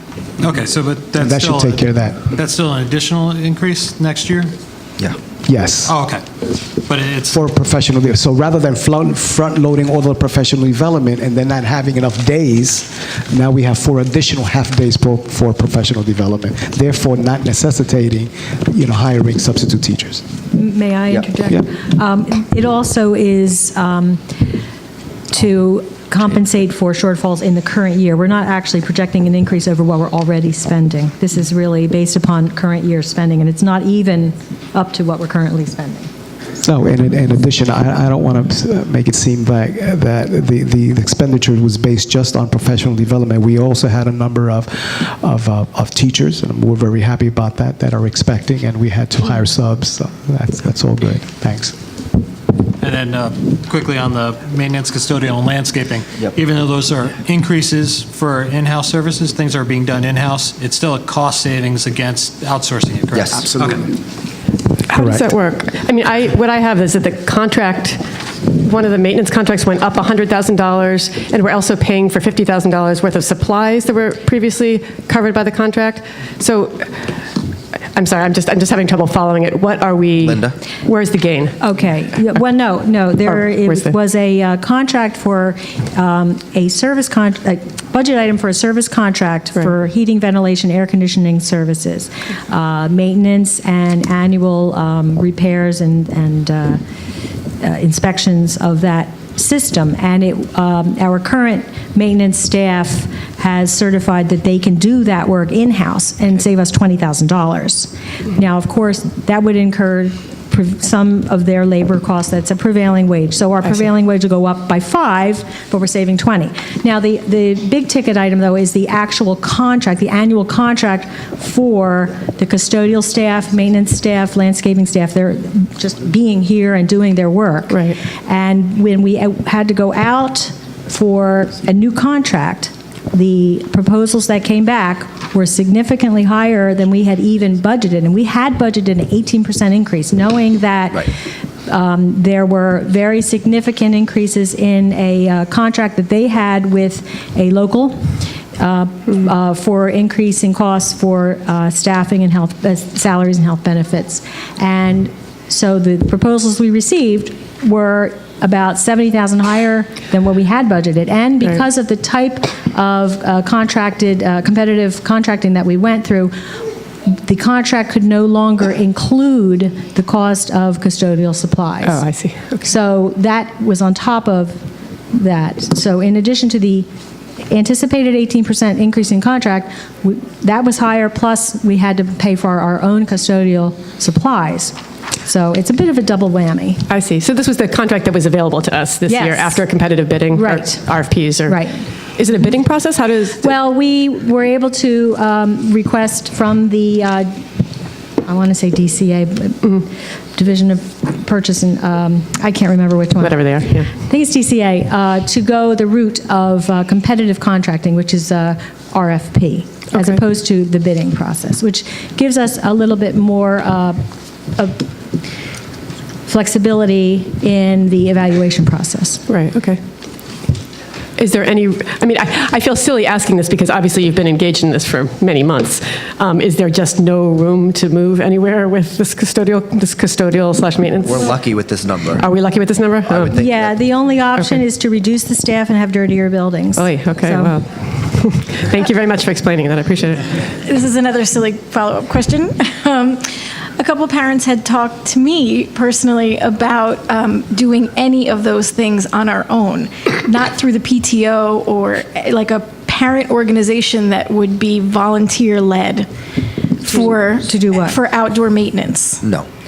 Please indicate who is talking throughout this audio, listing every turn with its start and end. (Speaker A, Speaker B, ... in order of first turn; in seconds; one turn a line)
Speaker A: 0.4-4.5
Speaker B: 1.2-2.2
Speaker B: 5.4-5.9
Speaker A: 5.8-6.2
Speaker A: 6.8-7.4
Speaker B: 7.3-20.2
Speaker C: 20.5-24.2
Speaker C: 25.3-36.1
Speaker B: 36.6-51.7
Speaker A: 52.8-63.9
Speaker D: 63.1-63.5
Speaker E: 64.8-77.0
Speaker B: 64.9-65.2
Speaker E: 77.9-81.6
Speaker D: 80.2-80.5
Speaker C: 81.6-96.8
Speaker E: 83.3-83.9
Speaker C: 97.6-141.1
Speaker E: 127.7-128.0
Speaker C: 141.7-166.3
Speaker C: 167.1-172.0
Speaker E: 171.8-172.6
Speaker C: 172.6-176.9
Speaker C: 177.5-186.8
Speaker E: 186.9-193.5
Speaker C: 189.1-189.6
Speaker C: 190.3-190.8
Speaker C: 191.4-191.8
Speaker C: 193.4-197.4
Speaker C: 198.2-214.0
Speaker E: 203.2-203.9
Speaker E: 209.9-210.2
Speaker C: 214.6-214.8
Speaker C: 216.3-219.2
Speaker E: 219.3-219.8
Speaker E: 221.2-231.4
Speaker D: 231.0-232.2
Speaker E: 232.2-233.4
Speaker D: 233.1-233.7
Speaker C: 233.3-237.6
Speaker E: 236.8-240.4
Speaker F: 240.6-256.1
Speaker C: 256.8-258.0
Speaker F: 256.8-259.2
Speaker D: 259.2-259.5